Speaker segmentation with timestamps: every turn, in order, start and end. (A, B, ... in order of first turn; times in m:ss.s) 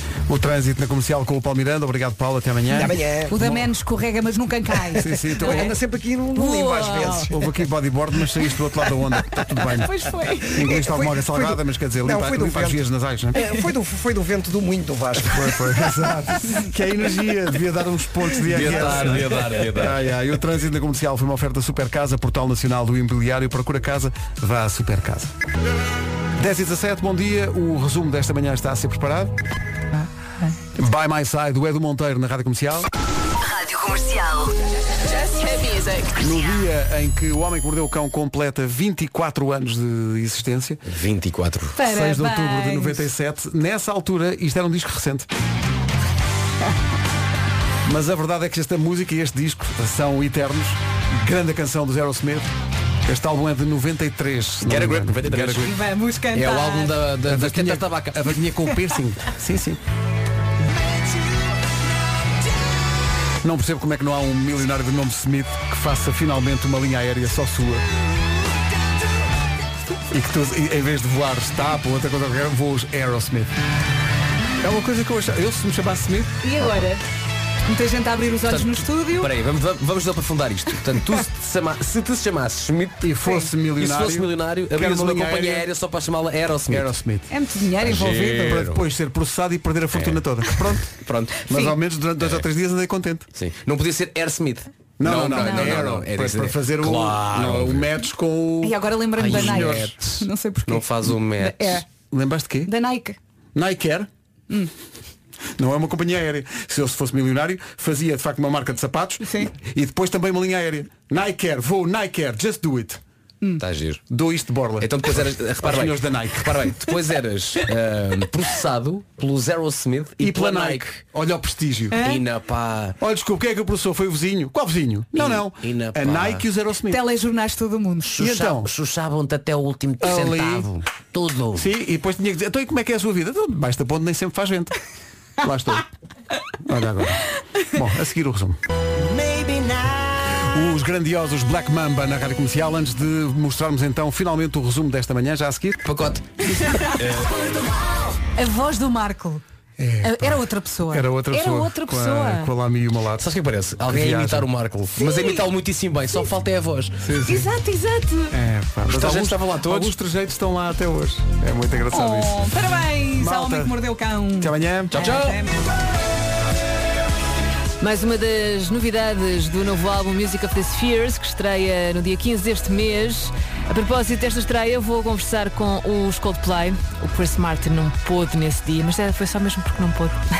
0:00.3-0:03.6 A
0:02.7-0:03.3 B
0:03.3-0:05.8 C
0:04.9-0:05.7 A
0:05.4-0:07.3 B
0:06.3-0:07.3 C
0:07.3-0:13.4 A
0:09.6-0:10.7 C
0:10.6-0:12.8 B
0:13.3-0:15.9 B
0:15.2-0:25.3 A
0:18.4-0:20.0 D
0:26.4-0:29.3 A
0:30.7-0:32.9 A
0:33.4-0:36.4 E
0:36.2-0:40.8 A
0:40.8-0:41.8 D
0:41.8-0:43.0 C
0:41.8-0:45.3 A
0:47.8-0:52.5 A
0:53.0-0:55.7 A
0:54.6-0:55.7 D
0:55.6-0:57.0 C
0:56.3-0:58.4 D
0:57.2-0:59.8 A
1:03.4-1:07.8 A
1:10.1-1:13.5 A
1:14.6-1:16.7 A
1:16.4-1:17.0 C
1:17.7-1:19.3 C
1:18.5-1:23.1 D
1:23.0-1:25.6 A
1:23.7-1:26.9 D
1:26.7-1:27.3 A
1:27.3-1:28.6 C
1:27.8-1:28.8 D
1:28.3-1:31.0 A
1:29.9-1:30.2 D
1:31.0-1:31.4 D
1:31.5-1:33.2 A
1:32.2-1:32.4 D
1:33.4-1:37.9 D
1:35.0-1:39.9 A
1:35.4-1:35.9 C
1:38.6-1:41.9 C
1:39.2-1:41.8 D
1:42.1-1:42.7 A
1:42.6-1:43.2 C
1:43.5-1:44.1 A
1:45.6-1:53.0 A
1:49.2-1:49.5 C
1:53.6-1:54.0 D
1:54.1-1:56.7 A
1:54.8-2:01.0 D
2:00.2-2:02.0 A
2:01.9-2:02.2 C
2:02.0-2:03.0 D
2:03.0-2:07.0 A
2:05.1-2:06.4 D
2:06.9-2:08.2 C
2:08.1-2:11.7 D
2:08.2-2:08.7 A
2:10.0-2:10.7 A
2:11.5-2:14.7 A
2:15.4-2:15.8 A
2:16.6-2:18.6 A
2:19.0-2:20.1 D
2:20.4-2:25.8 A
2:25.8-2:26.3 D
2:26.6-2:27.0 C
2:26.8-2:27.1 D
2:28.3-2:29.4 C
2:29.8-2:33.3 A
2:30.0-2:32.5 C
2:33.2-2:37.0 D
2:33.8-2:34.5 A
2:35.0-2:35.5 C
2:37.0-2:37.5 A
2:37.2-2:38.4 C
2:38.3-2:42.6 A
2:38.9-2:39.9 D
2:41.9-2:45.6 C
2:43.2-2:43.8 A
2:44.4-2:45.1 A
2:44.9-2:45.4 D
2:47.8-3:00.2 F